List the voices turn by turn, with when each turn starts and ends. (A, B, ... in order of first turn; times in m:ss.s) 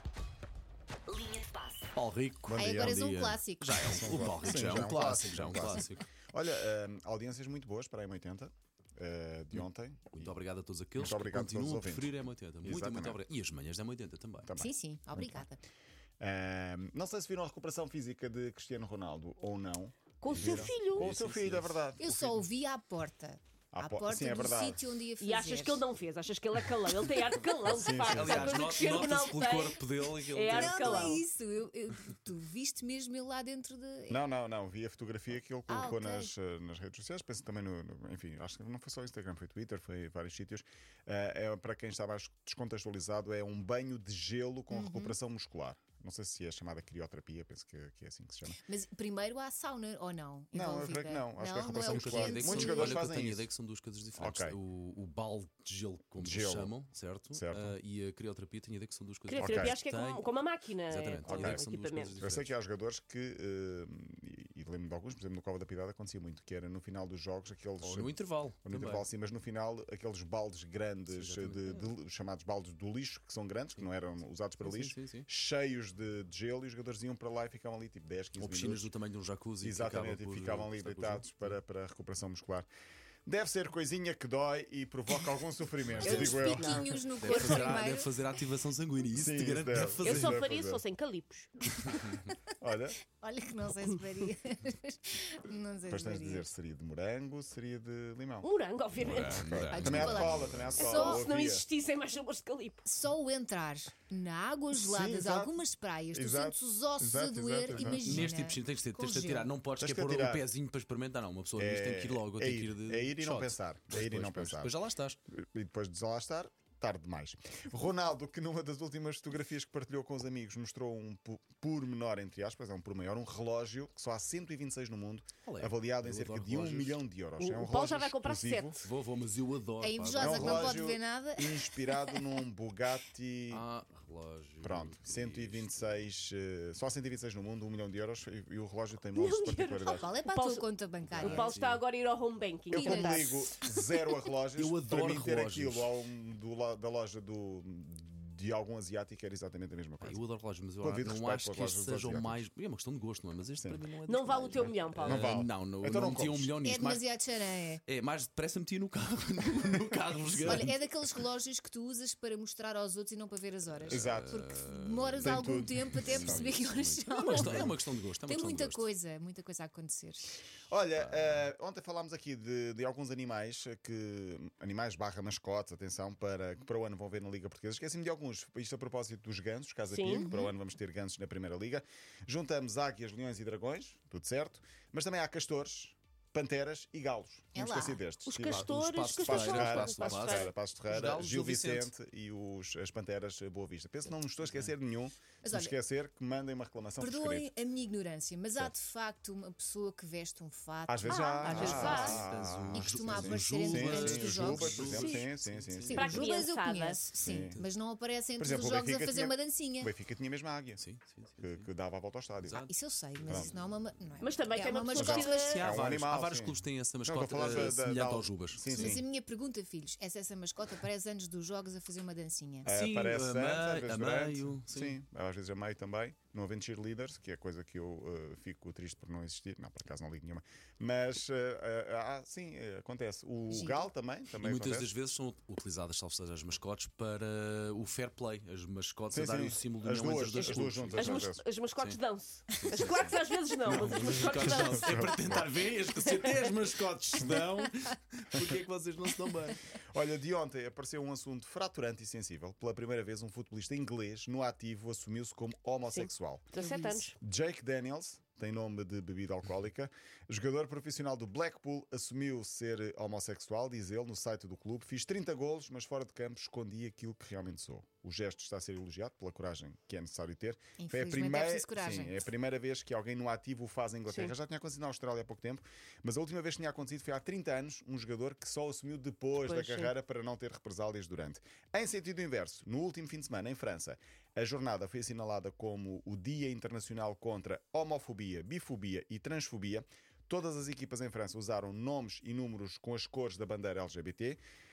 0:01.9-0:06.0 A
0:02.5-0:03.1 B
0:02.6-0:04.6 C
0:03.8-0:10.4 B
0:09.5-0:14.5 A
0:11.0-0:13.2 B
0:14.4-0:15.5 B
0:14.6-0:15.6 C
0:16.2-0:22.5 B
0:20.2-0:21.1 D
0:20.3-0:21.8 A
0:22.0-0:25.8 C
0:23.7-0:24.8 B
0:25.2-0:31.2 D
0:27.6-0:28.6 B
0:28.0-0:31.2 A
0:30.5-0:34.2 C
0:34.1-0:48.6 B
0:35.7-0:36.3 C
0:44.7-0:45.1 C
0:48.5-0:53.0 C
0:50.5-0:53.5 B
0:51.8-1:00.3 A
0:54.2-0:54.6 B
0:56.2-0:56.7 B
0:57.3-0:57.8 B
0:59.3-1:02.1 D
0:59.4-0:59.7 B
1:00.9-1:02.5 A
1:01.2-1:01.6 B
1:02.2-1:18.9 B
1:07.8-1:09.1 A
1:11.1-1:11.9 A
1:14.6-1:15.2 A
1:18.4-1:21.6 A
1:19.6-1:22.7 B
1:23.2-1:27.9 B
1:25.8-1:26.4 A
1:26.0-1:28.1 C
1:26.1-1:27.0 D
1:27.2-1:30.4 A
1:29.1-1:30.8 B
1:30.0-1:31.6 D
1:31.8-1:32.2 A
1:32.0-1:32.3 C
1:32.6-1:33.0 B
1:33.1-1:36.5 C
1:33.8-1:34.3 D
1:35.9-1:41.6 B
1:38.4-1:39.5 D
1:39.0-1:40.8 A
1:39.7-1:41.3 C
1:40.8-1:42.8 D
1:42.8-1:49.5 C
1:44.7-1:45.6 B
1:46.1-1:48.3 B
1:47.7-1:55.2 A
1:49.8-1:50.4 B
1:51.6-1:54.8 B
1:55.3-2:08.8 B
2:05.4-2:07.0 A
2:07.4-2:08.8 D
2:08.8-2:10.8 A
2:09.8-2:12.4 C
2:10.2-2:13.6 B
2:13.5-2:16.0 A
2:14.6-2:20.1 B
2:19.1-2:23.3 D
2:20.0-2:21.5 C
2:21.0-2:21.5 B
2:21.2-2:21.8 A
2:22.7-2:30.2 B
2:22.7-2:24.1 C
2:24.6-2:25.9 A
2:30.0-2:37.0 A
2:30.8-2:32.4 B
2:34.1-2:35.3 D
2:35.0-2:36.5 B
2:36.6-2:37.8 C
2:37.8-2:40.7 A
2:39.9-2:40.7 B
2:40.4-2:50.4 C
2:43.7-2:48.8 A
2:43.9-2:44.4 B
2:45.2-2:46.5 B
2:47.4-2:47.6 B
2:50.7-3:17.5 B
2:51.0-2:51.4 A
2:59.9-3:00.3 D
3:00.1-3:00.5 C
3:07.5-3:08.0 C
3:08.2-3:10.5 D
3:08.4-3:11.9 A
3:14.4-3:14.7 A
3:15.4-3:15.7 C
3:17.0-3:25.3 C
3:20.9-3:26.2 B
3:21.1-3:22.2 D
3:21.4-3:26.2 A
3:24.8-3:25.2 D
3:25.8-3:29.9 C
3:25.9-3:27.0 D
3:27.2-3:27.6 B
3:27.3-3:27.6 A
3:28.4-3:30.8 B
3:30.8-3:31.7 A
3:31.4-3:32.6 B
3:32.4-3:33.5 A
3:32.7-3:35.7 C
3:33.2-3:33.6 B
3:34.2-3:35.7 D
3:34.9-3:39.0 B
3:35.4-3:39.0 A
3:37.4-3:37.7 C
3:38.7-3:42.7 C
3:42.6-3:54.9 B
3:42.7-3:45.0 A
3:53.5-3:53.8 C
3:54.4-4:02.0 A
3:59.1-4:01.4 B
4:00.3-4:05.1 D
4:02.5-4:09.6 A
4:03.9-4:05.5 B
4:06.2-4:06.5 D
4:09.9-4:16.5 B
4:15.9-4:17.1 D
4:16.6-4:17.1 C
4:17.2-4:54.4 B
4:30.8-4:32.2 C
4:34.1-4:34.3 D
4:39.4-4:39.9 D